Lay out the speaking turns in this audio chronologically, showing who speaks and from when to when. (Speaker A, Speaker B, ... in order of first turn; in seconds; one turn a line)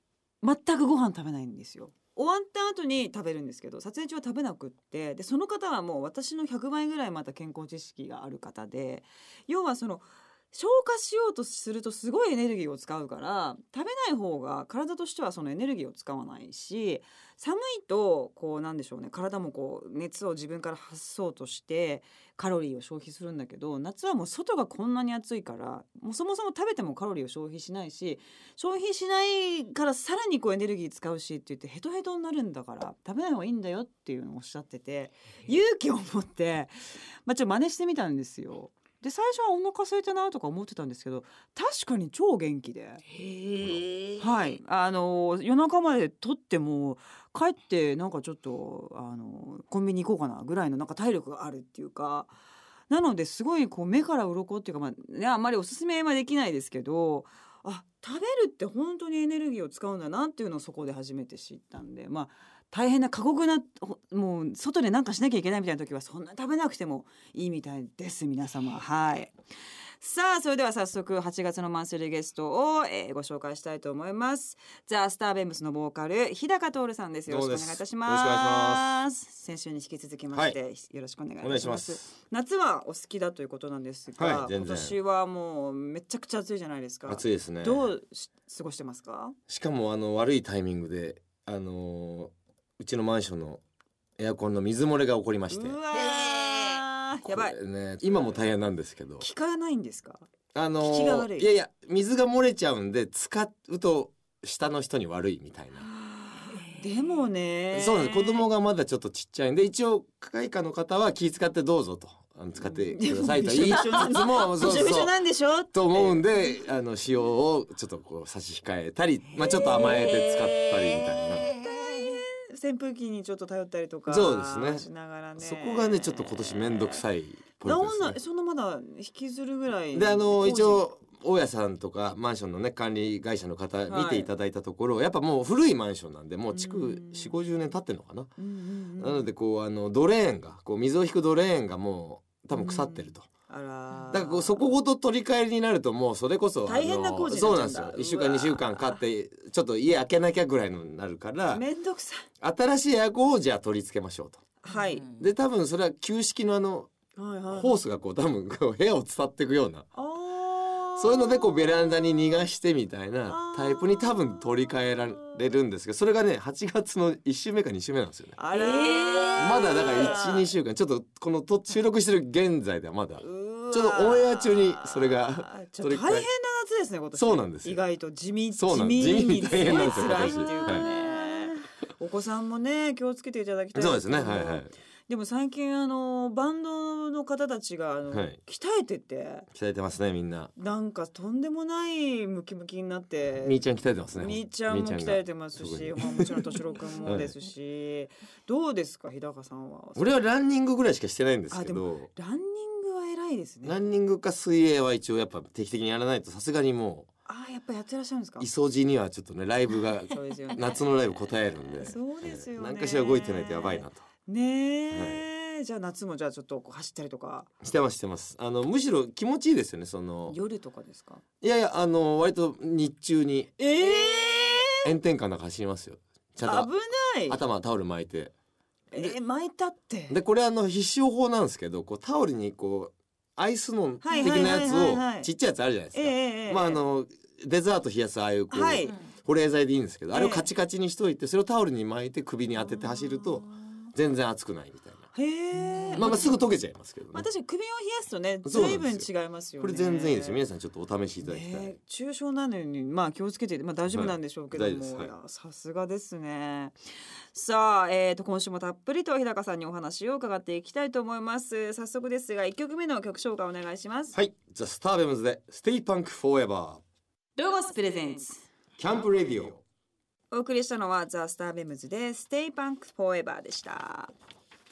Speaker A: 0.4-43.0
Speaker B: 43.1-44.2
Speaker A: 44.2-52.3
Speaker A: 52.9-69.3
Speaker A: 70.0-89.4
Speaker C: 77.3-79.0
Speaker C: 81.4-82.1
Speaker C: 84.2-85.0
Speaker C: 87.1-87.9
Speaker C: 89.5-93.6
Speaker C: 94.2-95.8
Speaker A: 95.5-97.6
Speaker B: 96.5-96.8
Speaker C: 97.2-99.2
Speaker A: 99.2-100.2
Speaker C: 100.5-105.9
Speaker A: 100.8-101.5
Speaker A: 106.1-108.5
Speaker C: 107.7-115.1
Speaker A: 112.6-116.2
Speaker C: 115.7-121.6
Speaker A: 119.4-127.0
Speaker C: 124.1-128.2
Speaker A: 127.6-130.8
Speaker C: 129.9-138.3
Speaker A: 133.9-134.3
Speaker A: 136.5-137.4
Speaker A: 138.4-139.3
Speaker C: 139.0-143.3
Speaker A: 142.5-144.7
Speaker C: 144.1-151.7
Speaker A: 146.7-149.0
Speaker A: 151.5-152.2
Speaker C: 152.4-154.4
Speaker A: 154.6-155.1
Speaker C: 155.2-156.9
Speaker A: 157.2-157.8
Speaker C: 157.5-159.9
Speaker A: 160.0-162.4
Speaker C: 161.0-168.4
Speaker A: 163.3-165.4
Speaker A: 168.4-170.5
Speaker B: 168.6-170.1
Speaker C: 169.4-176.3
Speaker A: 173.2-189.5
Speaker C: 177.2-177.8
Speaker C: 178.6-180.9
Speaker B: 179.9-180.8
Speaker C: 183.7-184.7
Speaker C: 188.1-188.4
Speaker C: 189.5-190.5
Speaker A: 190.6-193.6
Speaker C: 193.4-197.3
Speaker A: 194.2-200.2
Speaker C: 200.0-202.1
Speaker A: 201.5-203.8
Speaker C: 203.6-207.1
Speaker A: 207.3-208.5
Speaker C: 208.4-214.1
Speaker A: 210.1-210.8
Speaker A: 211.8-217.5
Speaker C: 214.9-215.2
Speaker C: 217.6-220.4
Speaker A: 220.3-221.2
Speaker C: 221.4-224.2
Speaker A: 223.6-224.9
Speaker C: 224.8-226.7
Speaker A: 226.4-227.4
Speaker C: 227.3-228.3
Speaker A: 228.9-230.2
Speaker C: 230.1-245.1
Speaker A: 234.0-235.3
Speaker A: 235.9-236.8
Speaker A: 238.5-239.0
Speaker A: 240.1-240.5
Speaker A: 242.6-243.7
Speaker A: 245.1-246.4
Speaker C: 245.9-247.3
Speaker A: 247.1-250.4
Speaker C: 248.4-251.8
Speaker A: 251.2-256.8
Speaker C: 253.9-255.1
Speaker A: 257.3-264.2
Speaker C: 264.1-266.8
Speaker A: 267.4-268.5
Speaker C: 268.8-269.6
Speaker A: 270.3-274.1